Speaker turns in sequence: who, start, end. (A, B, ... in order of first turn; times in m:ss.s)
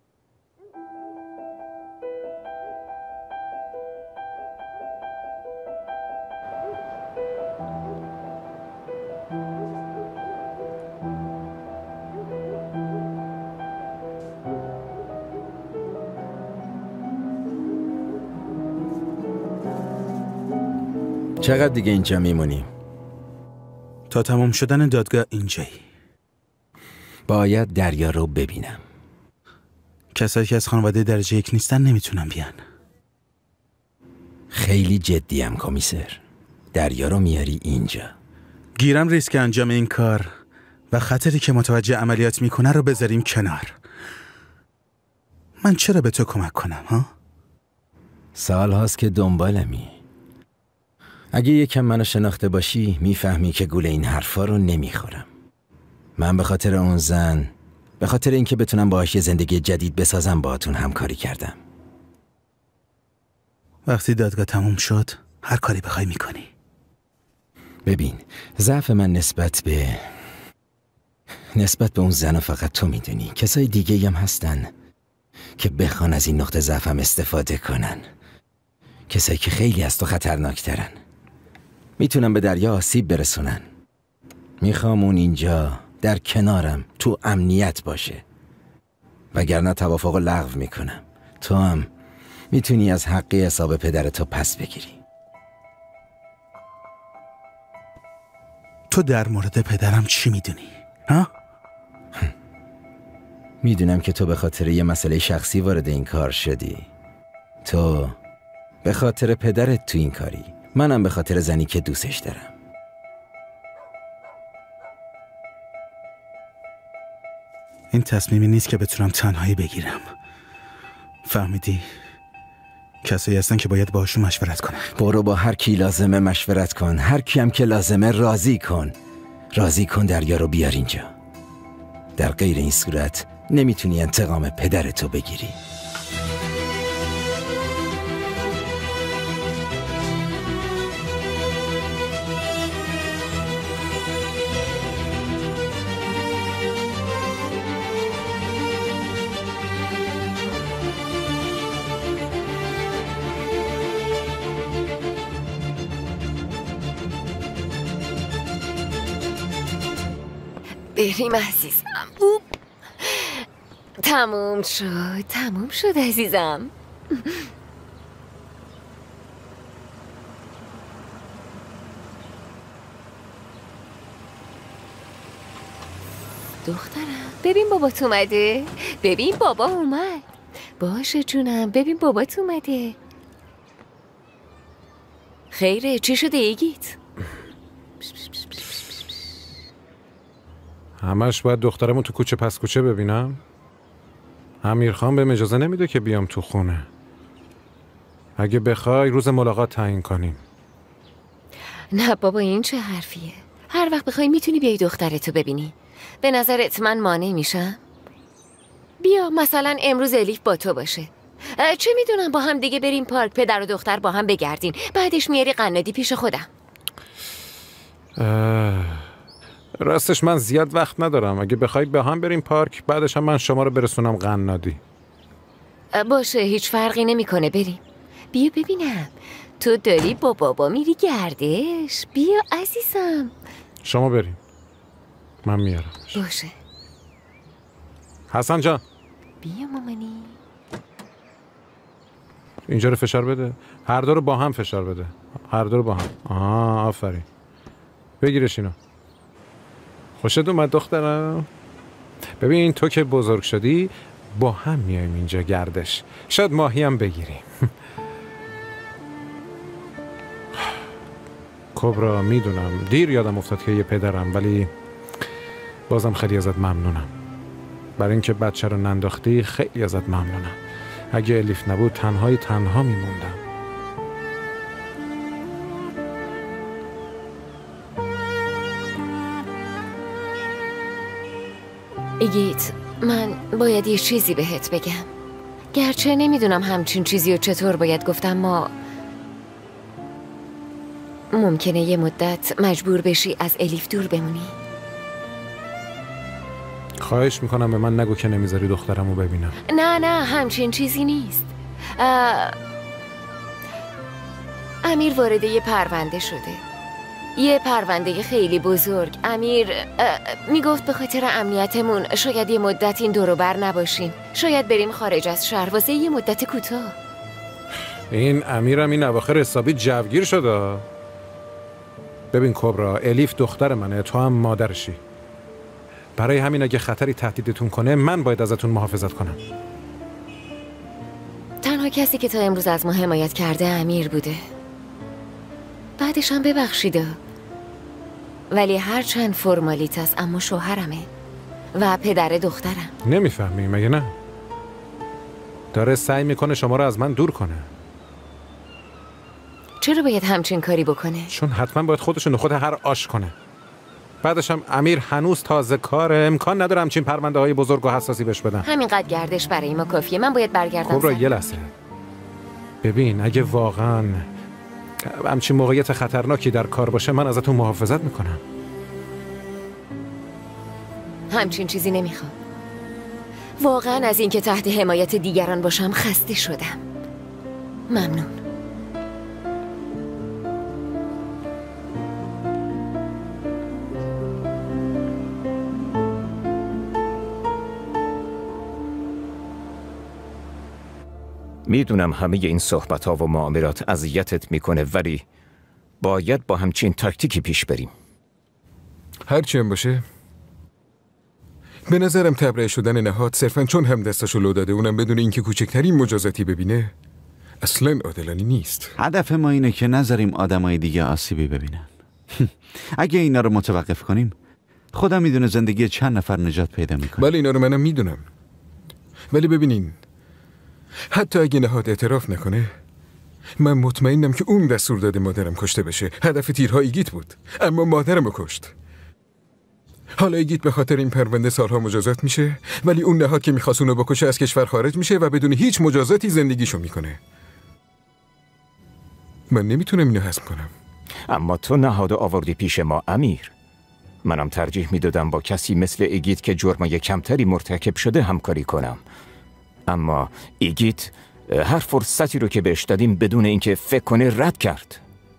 0:21.4-0:22.7 A
0:24.1-0:25.8 B
0:27.3-0:28.8 A
0:30.1-0:32.6 B
0:34.5-0:36.2 A
0:36.7-0:38.1 A
0:38.8-0:40.3 B
0:40.9-0:43.8 B
0:45.6-0:47.1 B
0:48.4-0:50.0 A
0:51.3-0:55.3 A
0:56.2-1:01.6 A
1:03.9-1:06.5 B
1:07.9-1:10.1 A
1:11.5-1:14.7 A
1:15.6-1:18.0 A
1:19.1-1:21.0 A
1:22.0-1:23.7 A
1:24.6-1:28.2 A
1:29.3-1:31.9 A
1:32.5-1:35.0 A
1:38.9-1:41.3 B
1:43.6-1:46.9 A
1:47.6-1:48.2 A
1:48.8-1:52.5 A
1:57.9-2:00.0 B
2:01.2-2:01.8 B
2:03.0-2:04.9 B
2:05.0-2:08.9 A
2:09.5-2:11.1 A
2:12.2-2:15.6 A
2:41.0-2:42.4 C
2:43.0-2:43.4 C
2:44.0-2:47.5 C
2:56.6-3:00.2 C
3:00.8-3:03.0 C
3:05.5-3:07.0 C
3:11.0-3:13.4 D
3:14.6-3:16.9 D
3:18.4-3:20.4 D
3:21.9-3:27.8 C
3:29.0-3:36.5 C
3:38.2-3:39.1 D
3:39.8-3:44.8 D
3:45.9-3:47.8 C
3:48.3-3:53.3 C
3:53.8-3:54.4 D
3:55.4-3:56.2 D
3:56.1-3:56.5 C
3:58.3-3:58.8 D
3:59.4-4:00.4 C
4:02.7-4:07.2 D
4:08.2-4:08.8 D
4:10.2-4:11.5 D
4:12.4-4:17.7 D
4:21.8-4:24.7 D
4:25.9-4:27.1 D
4:28.0-4:30.6 D
4:31.1-4:33.4 D
4:42.2-4:45.1 C
4:45.7-4:48.7 C
4:51.3-4:54.5 C
4:57.0-4:59.6 D
4:59.7-5:02.6 C
5:04.8-5:06.6 C
5:07.4-5:17.0 C
5:18.1-5:20.8 D
5:22.3-5:25.0 D
5:26.2-5:29.4 D
5:31.6-5:34.4 C
5:36.0-5:37.2 C
5:38.5-5:41.1 C
5:41.8-5:42.9 C
5:43.0-5:44.1 D
5:45.7-5:47.7 D
5:49.8-5:51.3 C
5:51.3-5:53.3 D
5:54.2-5:58.6 D
5:58.6-6:01.2 C
6:00.9-6:01.7 D
6:02.8-6:04.3 D
6:05.0-6:08.4 D
6:11.3-6:12.3 C
6:13.6-6:16.8 C
6:17.9-6:18.3 C
6:31.7-6:35.2 E
6:36.0-6:37.9 E
6:39.3-6:40.0 F
6:41.9-6:46.9 F
6:47.6-6:48.9 F
6:49.0-6:51.9 G
6:52.4-6:54.4 G
6:54.9-6:57.2 G
6:57.2-6:58.2 F
6:59.3-7:00.0 F
7:01.1-7:02.7 F
7:03.6-7:08.7 F
7:10.2-7:17.2 F
7:19.5-7:20.7 F
7:21.3-7:23.5 E
7:24.2-7:29.0 E
7:29.9-7:35.0 E